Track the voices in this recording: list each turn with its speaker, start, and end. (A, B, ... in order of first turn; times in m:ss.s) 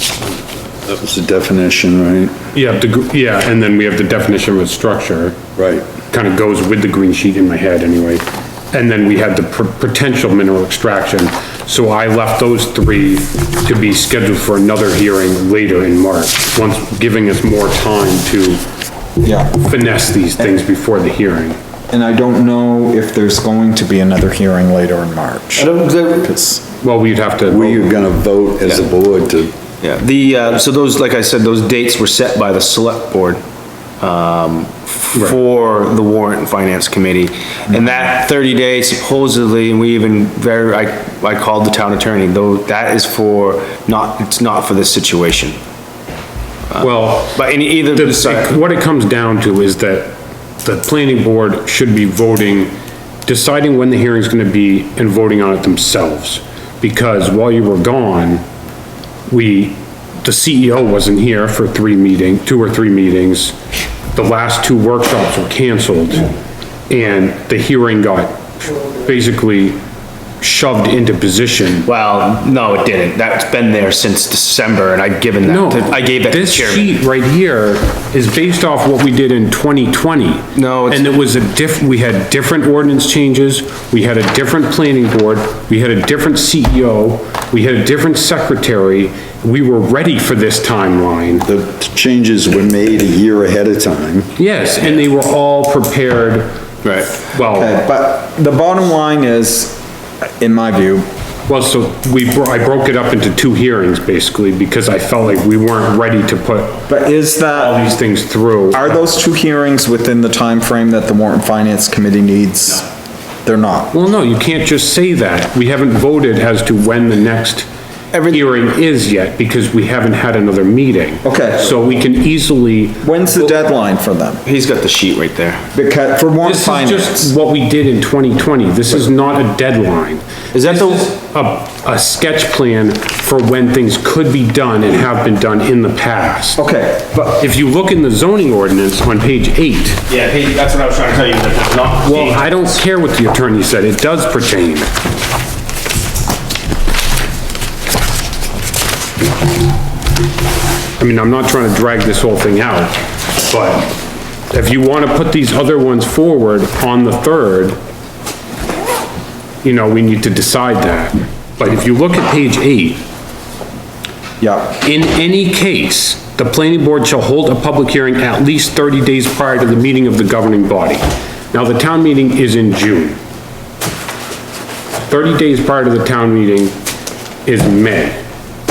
0:00.8-0:02.3 A
0:02.5-0:05.4 B
0:05.6-0:05.9 A
0:06.1-0:18.6 B
0:19.2-0:19.7 C
0:19.6-0:21.6 B
0:21.9-0:26.7 C
0:25.6-0:26.3 D
0:26.8-0:27.9 B
0:27.5-0:29.5 A
0:29.8-0:33.4 D
0:34.0-0:45.6 D
0:46.8-0:48.6 D
0:46.8-0:52.8 B
0:53.3-0:58.4 B
0:59.3-1:03.6 B
1:04.1-1:06.3 B
1:06.9-1:09.8 B
1:10.4-1:11.9 B
1:11.8-1:16.9 D
1:15.4-1:31.5 B
1:20.6-1:21.2 D
1:31.4-1:34.3 A
1:34.4-1:36.6 B
1:36.8-1:37.2 D
1:37.2-1:37.8 B
1:37.5-1:39.8 C
1:40.4-1:41.0 C
1:41.5-1:46.8 B
1:46.9-1:47.9 C
1:47.6-1:49.0 B
1:48.7-1:52.9 C
1:53.4-1:53.9 C
1:53.9-1:57.7 B
1:58.1-1:58.5 D
1:58.3-2:03.2 B
2:01.2-2:01.8 C
2:03.0-2:04.4 C
2:04.4-2:05.6 D
2:05.7-2:07.3 C
2:06.4-2:16.6 B
2:10.5-2:11.2 D
2:16.6-2:17.4 C
2:17.4-2:20.0 B
2:20.1-2:22.4 D
2:22.0-2:24.9 B
2:31.0-2:33.9 B
2:34.5-2:37.8 B
2:39.6-2:43.0 B
2:44.4-2:44.8 C
2:44.8-2:53.2 B
2:55.1-2:56.8 B
2:57.4-2:58.2 B